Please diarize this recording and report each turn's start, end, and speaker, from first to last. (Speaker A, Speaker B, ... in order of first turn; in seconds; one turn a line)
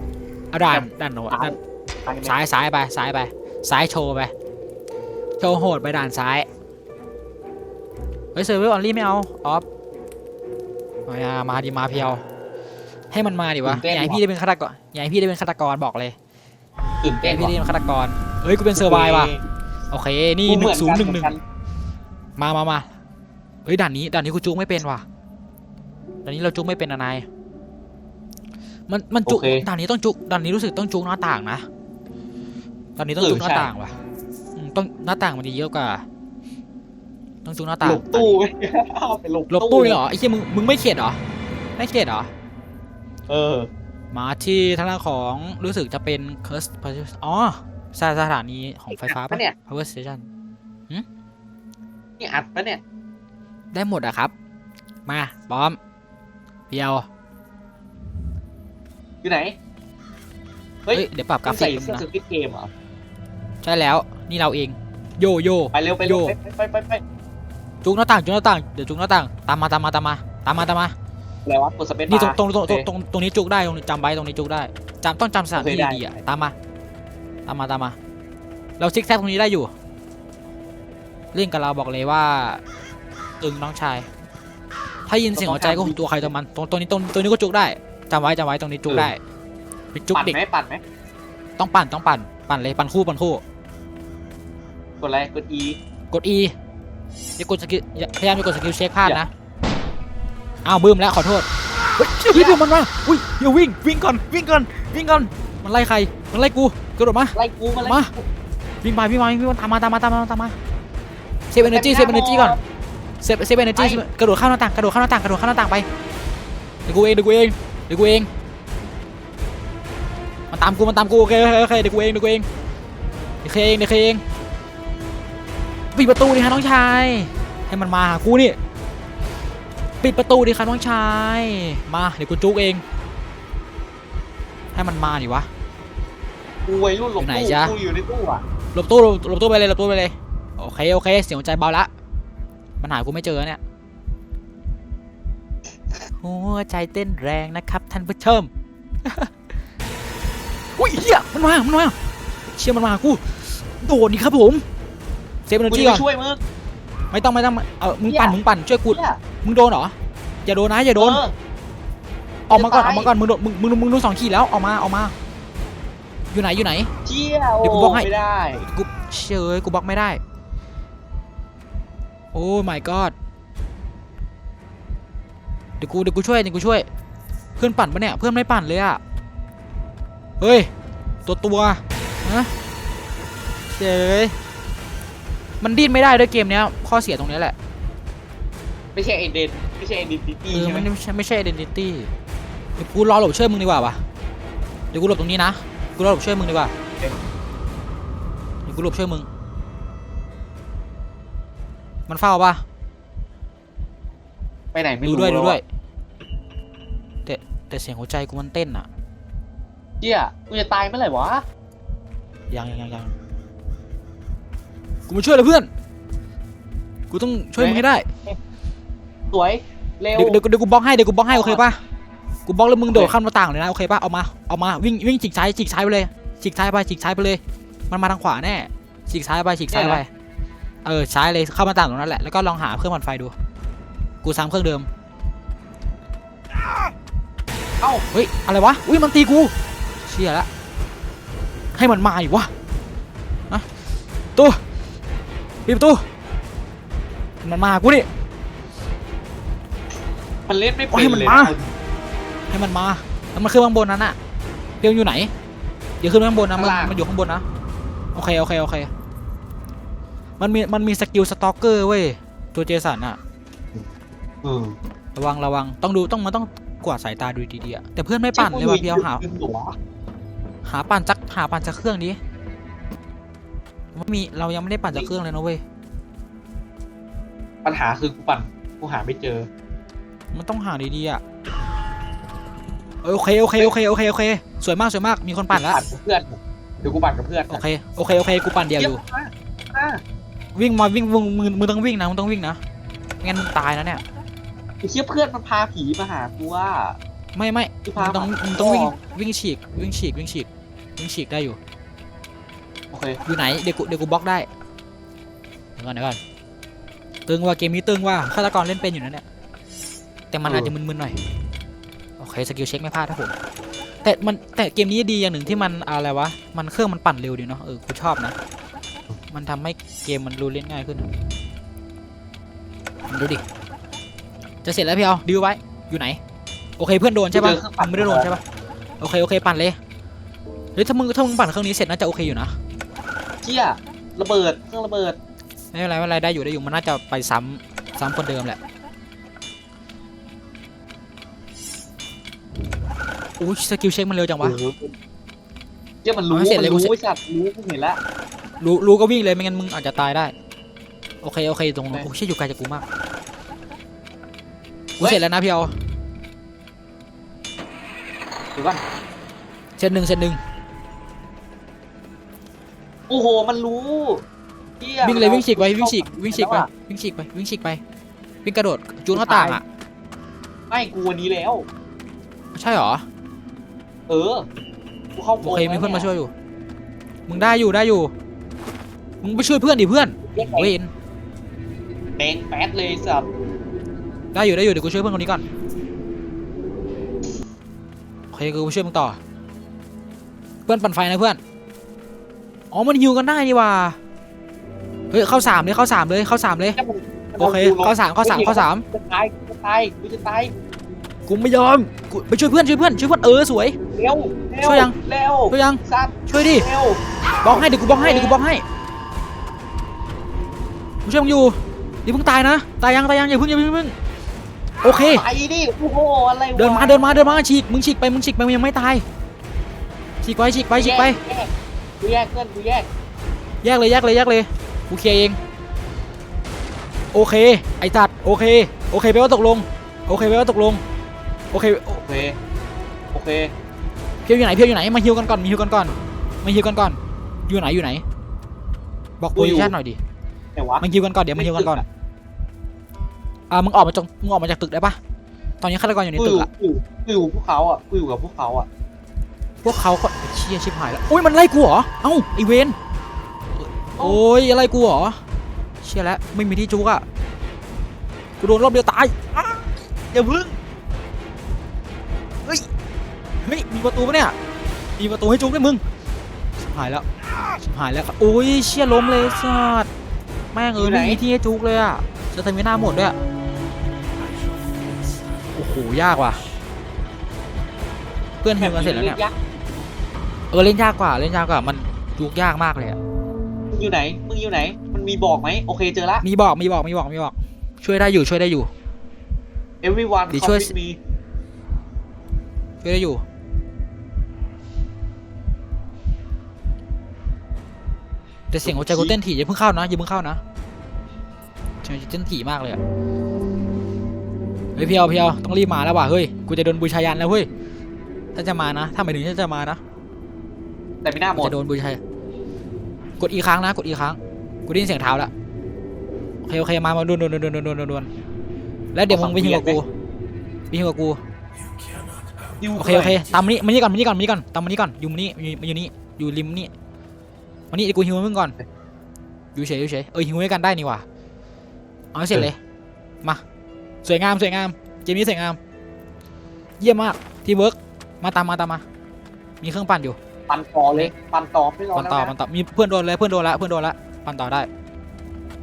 Speaker A: 0.5-1.6
Speaker B: 0.7-2.3
Speaker A: 2.2-4.3
Speaker A: 5.4-6.5
Speaker A: 8.3-9.6
Speaker A: 11.1-12.2
Speaker A: 13.1-16.1
Speaker B: 13.6-14.2
Speaker B: 17.0-17.6
Speaker A: 17.2-19.3
Speaker B: 18.8-19.4
Speaker A: 19.9-21.3
Speaker B: 20.5-21.4
Speaker A: 22.4-22.9
Speaker A: 23.6-25.0
Speaker A: 26.2-27.2
Speaker A: 28.9-31.6
Speaker B: 29.3-29.6
Speaker A: 33.0-34.0
Speaker B: 33.2-33.7
Speaker A: 34.5-36.0
Speaker A: 37.4-38.4
Speaker B: 37.8-40.0
Speaker A: 39.5-41.2
Speaker A: 41.8-42.3
Speaker B: 43.3-43.7
Speaker A: 44.1-50.3
Speaker B: 48.9-49.5
Speaker B: 52.2-52.8
Speaker A: 53.7-54.3
Speaker A: 55.0-55.8
Speaker A: 56.7-57.1
Speaker B: 59.2-59.5
Speaker B: 60.9-62.7
Speaker A: 60.9-62.0
Speaker A: 63.6-66.3
Speaker B: 65.7-67.0
Speaker A: 67.8-70.9
Speaker B: 71.5-72.9
Speaker A: 72.1-76.5
Speaker B: 75.5-76.1
Speaker A: 77.5-78.0
Speaker A: 78.8-79.7
Speaker A: 81.3-82.6
Speaker A: 83.4-84.1
Speaker A: 85.1-89.2
Speaker B: 85.3-86.3
Speaker B: 88.9-89.1
Speaker A: 89.9-90.3
Speaker B: 90.1-90.8
Speaker A: 91.6-93.4
Speaker B: 95.0-95.8
Speaker A: 96.1-96.5
Speaker A: 97.4-99.3
Speaker A: 100.6-108.1
Speaker B: 102.3-102.6
Speaker B: 107.3-108.2
Speaker A: 108.8-110.6
Speaker A: 111.5-112.6
Speaker B: 111.6-112.6
Speaker A: 113.2-115.9
Speaker B: 113.7-114.0
Speaker A: 116.8-118.3
Speaker A: 120.5-122.5
Speaker A: 123.4-124.2
Speaker A: 125.9-128.6
Speaker A: 130.0-132.8
Speaker A: 134.7-135.5
Speaker B: 136.7-138.4
Speaker A: 137.2-137.7
Speaker A: 138.7-141.9
Speaker A: 142.8-143.6
Speaker A: 146.2-148.5
Speaker A: 149.0-149.3
Speaker A: 150.8-151.9
Speaker A: 152.6-154.6
Speaker A: 155.5-156.0
Speaker B: 155.7-156.4
Speaker A: 157.1-161.2
Speaker B: 158.1-159.2
Speaker B: 161.0-161.3
Speaker A: 162.5-165.1
Speaker B: 162.5-163.1
Speaker A: 166.3-166.9
Speaker B: 167.0-168.7
Speaker A: 167.6-168.1
Speaker A: 168.7-170.2
Speaker A: 172.3-173.1
Speaker A: 175.8-176.9
Speaker A: 177.6-179.0
Speaker A: 180.4-180.7
Speaker A: 181.2-182.5
Speaker A: 183.7-184.3
Speaker A: 185.6-187.5
Speaker B: 188.9-190.9
Speaker A: 190.5-192.1
Speaker A: 192.8-194.0
Speaker A: 194.9-196.7
Speaker A: 198.7-199.3
Speaker A: 202.1-202.6
Speaker B: 204.7-205.6
Speaker A: 205.0-205.6
Speaker A: 207.2-208.9
Speaker B: 210.0-211.4
Speaker A: 212.5-213.1
Speaker A: 215.1-215.7
Speaker A: 217.1-218.1
Speaker B: 217.6-218.4
Speaker B: 219.3-220.4
Speaker A: 220.2-221.8
Speaker B: 221.3-221.6
Speaker A: 222.4-230.1
Speaker B: 222.9-223.1
Speaker B: 229.7-230.0
Speaker A: 230.8-233.3
Speaker A: 234.2-234.9
Speaker A: 238.1-239.5
Speaker A: 240.0-240.5
Speaker A: 241.7-242.5
Speaker A: 245.6-246.0
Speaker A: 247.4-248.1
Speaker B: 250.5-251.7
Speaker A: 250.9-251.6
Speaker A: 252.5-254.2
Speaker A: 254.8-255.3
Speaker A: 256.0-257.4
Speaker B: 256.5-257.0
Speaker A: 258.1-258.9
Speaker A: 260.4-263.2
Speaker B: 264.4-264.8
Speaker A: 265.1-269.2
Speaker B: 268.3-269.7
Speaker A: 270.6-272.2
Speaker A: 273.9-275.6
Speaker B: 277.6-279.5
Speaker A: 280.3-281.2
Speaker A: 283.0-285.8
Speaker B: 285.5-287.6
Speaker A: 287.5-289.0
Speaker B: 288.8-290.0
Speaker A: 290.5-292.6
Speaker A: 293.2-294.0
Speaker B: 294.8-297.0
Speaker A: 297.3-301.6
Speaker B: 297.9-299.0
Speaker B: 302.9-303.2
Speaker A: 303.2-304.5
Speaker A: 305.8-306.2
Speaker A: 307.3-309.2
Speaker A: 310.3-311.2
Speaker B: 310.4-310.7
Speaker A: 312.2-313.3
Speaker A: 314.0-318.4
Speaker A: 319.3-321.1
Speaker A: 323.1-323.4
Speaker A: 324.6-326.2
Speaker A: 326.8-328.4
Speaker B: 327.3-328.3
Speaker A: 329.0-329.8
Speaker A: 330.8-332.6
Speaker B: 333.4-335.2
Speaker A: 335.7-338.6
Speaker A: 343.4-344.6
Speaker B: 344.4-344.9
Speaker B: 346.0-348.0
Speaker A: 346.3-346.9
Speaker A: 348.6-350.3
Speaker A: 351.2-352.8
Speaker A: 355.0-355.7
Speaker B: 358.6-358.8
Speaker A: 359.8-360.4
Speaker B: 363.1-364.2
Speaker B: 364.8-366.7
Speaker A: 365.0-367.8
Speaker A: 368.4-369.6
Speaker B: 369.1-369.6
Speaker B: 370.7-371.6
Speaker A: 372.5-373.0
Speaker B: 374.1-374.4
Speaker B: 375.1-376.1
Speaker A: 375.4-376.3
Speaker A: 377.3-378.1
Speaker A: 379.2-380.9
Speaker B: 380.3-380.7
Speaker B: 382.2-383.3
Speaker A: 384.3-385.4
Speaker A: 388.3-389.2
Speaker A: 390.7-391.4
Speaker A: 392.7-394.0
Speaker A: 395.1-396.8
Speaker B: 396.8-400.5
Speaker A: 397.4-398.8
Speaker A: 401.3-403.8
Speaker B: 403.9-408.4
Speaker A: 404.6-405.0
Speaker A: 405.5-406.6
Speaker A: 407.4-408.6
Speaker A: 411.0-413.9
Speaker A: 414.8-415.2
Speaker B: 414.9-417.4
Speaker A: 416.5-419.1
Speaker A: 420.2-421.2
Speaker B: 420.7-422.9
Speaker A: 423.6-425.4
Speaker A: 427.1-430.8
Speaker A: 431.5-432.0
Speaker B: 432.1-432.4
Speaker B: 433.1-433.5
Speaker A: 434.2-438.0
Speaker A: 439.2-440.0
Speaker B: 439.4-439.7
Speaker B: 440.6-440.8
Speaker A: 440.8-441.8
Speaker B: 441.4-441.8
Speaker A: 443.5-445.0
Speaker A: 445.6-446.5
Speaker B: 446.2-448.7
Speaker A: 449.6-452.8
Speaker A: 453.6-455.2
Speaker B: 454.0-454.2
Speaker A: 455.8-457.0
Speaker A: 458.4-460.6
Speaker A: 463.4-464.4
Speaker A: 465.0-465.8
Speaker A: 466.6-467.0
Speaker A: 467.6-469.9
Speaker A: 470.5-473.1
Speaker B: 470.7-471.2
Speaker A: 475.5-476.4
Speaker A: 478.4-479.2
Speaker B: 478.6-479.4
Speaker A: 480.5-483.0
Speaker B: 483.7-486.2
Speaker A: 486.2-488.7
Speaker B: 489.8-491.0
Speaker A: 490.3-490.7
Speaker A: 492.8-493.2
Speaker A: 498.5-500.4
Speaker B: 498.6-499.1
Speaker A: 501.8-502.8
Speaker A: 504.8-507.5
Speaker A: 508.3-509.8
Speaker B: 511.0-511.5
Speaker A: 511.4-512.0
Speaker A: 513.2-515.3
Speaker A: 516.4-518.1
Speaker A: 518.9-519.9
Speaker B: 519.1-519.8
Speaker A: 520.7-521.2
Speaker B: 522.6-523.2
Speaker A: 522.8-526.7
Speaker A: 527.7-528.5
Speaker A: 529.5-531.0
Speaker A: 532.1-532.6
Speaker A: 534.0-535.6
Speaker A: 536.8-538.8
Speaker A: 539.6-540.2
Speaker B: 540.5-542.3
Speaker A: 541.9-544.7